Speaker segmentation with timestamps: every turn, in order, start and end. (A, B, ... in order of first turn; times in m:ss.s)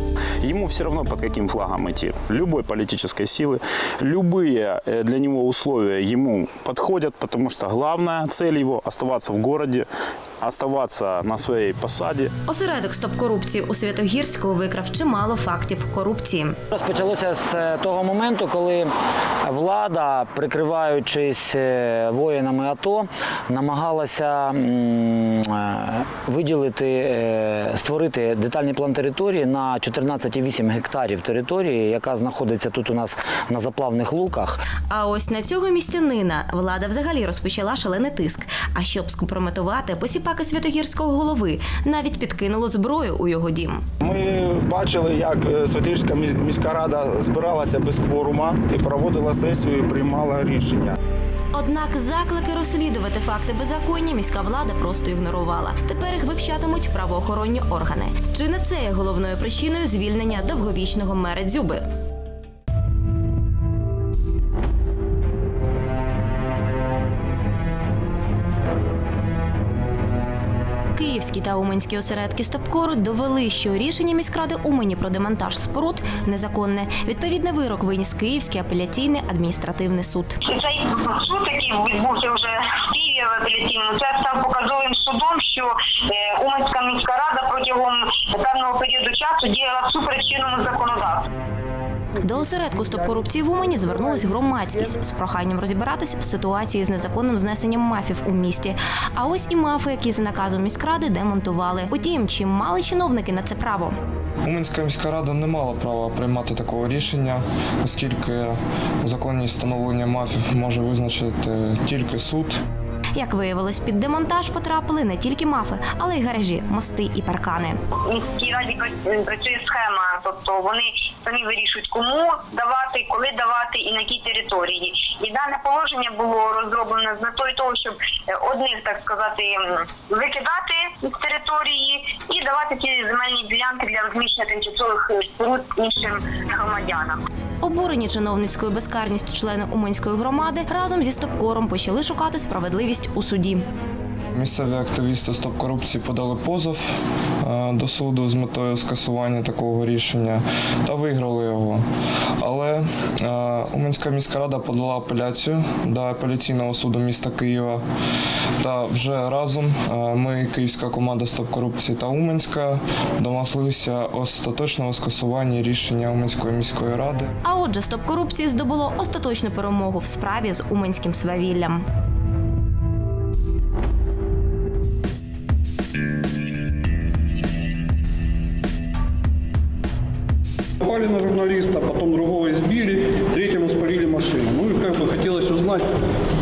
0:00.4-0:09.9 A
0:10.4-0:12.3 A
0:12.5-0:16.6 B
0:16.7-0:18.9 C
0:19.4-0:34.6 C
0:34.9-0:43.8 B
0:44.0-0:51.0 D
0:51.5-1:01.8 B
1:10.9-1:20.4 B
1:20.5-1:31.3 E
1:32.2-1:43.9 B
1:44.4-1:52.6 F
1:53.2-1:57.8 B
1:58.1-2:17.2 E
2:17.6-2:23.6 B
2:24.3-2:31.8 F
2:32.4-2:37.8 F
2:38.6-2:47.3 F
2:47.4-2:51.8 B
3:00.9-3:05.8 G